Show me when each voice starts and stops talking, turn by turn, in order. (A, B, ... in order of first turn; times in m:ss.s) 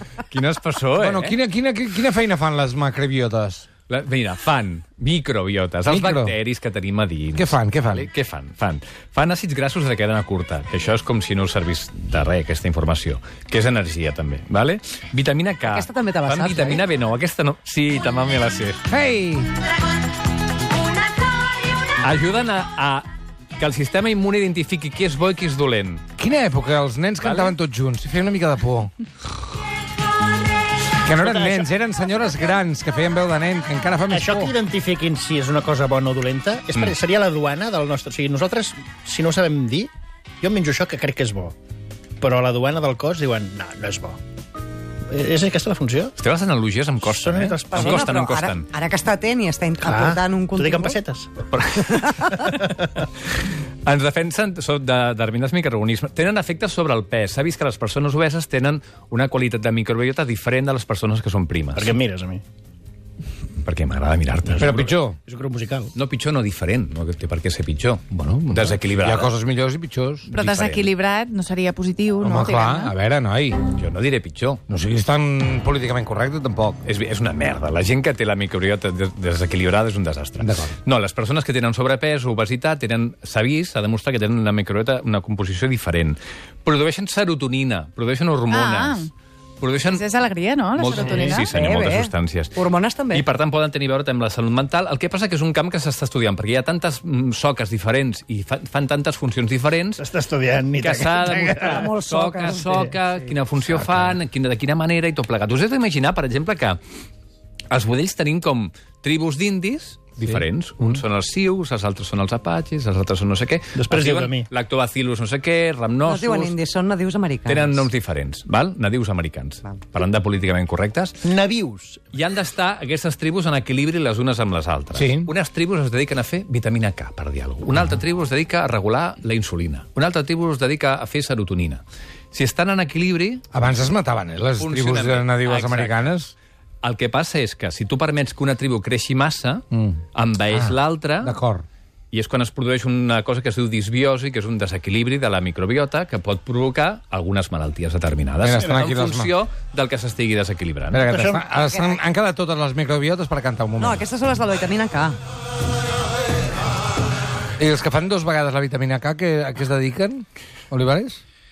0:00.3-0:01.4 A
0:01.0-0:03.6 B
0:03.9-0:18.8 A
0:05.8-0:06.3 B
0:07.3-0:08.1 B
0:15.7-0:16.8 C
0:18.9-0:19.5 B
0:22.0-0:26.0 A
0:26.2-0:28.9 B
0:27.2-0:27.6 A
0:31.0-0:34.5 B
0:31.2-0:31.7 D
0:34.1-0:39.9 D
0:40.4-0:41.5 D
0:42.2-0:44.2 D
0:45.1-0:46.1 D
0:46.2-0:48.7 A
0:47.0-0:48.1 D
0:47.7-0:51.0 C
0:49.8-0:51.4 D
0:51.5-0:53.0 A
0:52.4-0:53.0 D
0:53.8-1:02.0 A
1:01.7-1:02.4 D
1:03.6-1:05.0 A
1:04.6-1:05.2 B
1:04.6-1:05.9 D
1:05.9-1:09.3 A
1:08.1-1:10.2 B
1:10.3-1:12.9 E
1:10.3-1:10.9 A
1:12.2-1:13.6 B
1:13.7-1:14.6 A
1:14.7-1:16.8 B
1:16.8-1:30.1 A
1:20.4-1:20.7 B
1:28.5-1:29.1 E
1:29.8-1:31.5 E
1:30.7-1:32.6 A
1:31.3-1:33.3 C
1:33.1-1:40.0 A
1:40.0-1:41.9 D
1:40.8-1:46.8 A
1:41.2-1:43.0 C
1:47.7-1:56.6 A
1:53.8-1:54.5 D
1:56.0-1:57.8 C
1:57.4-2:01.2 A
2:01.2-2:02.1 D
2:02.1-2:13.4 A
2:04.9-2:05.3 B
2:13.5-2:16.3 B
2:14.6-2:16.2 A
2:16.8-2:21.4 A
2:19.7-2:21.6 B
2:22.1-2:31.1 A
2:28.4-2:29.3 B
2:30.9-2:34.0 B
2:31.1-2:31.4 D
2:31.7-2:32.0 C
2:33.8-2:35.2 C
2:37.6-2:41.2 B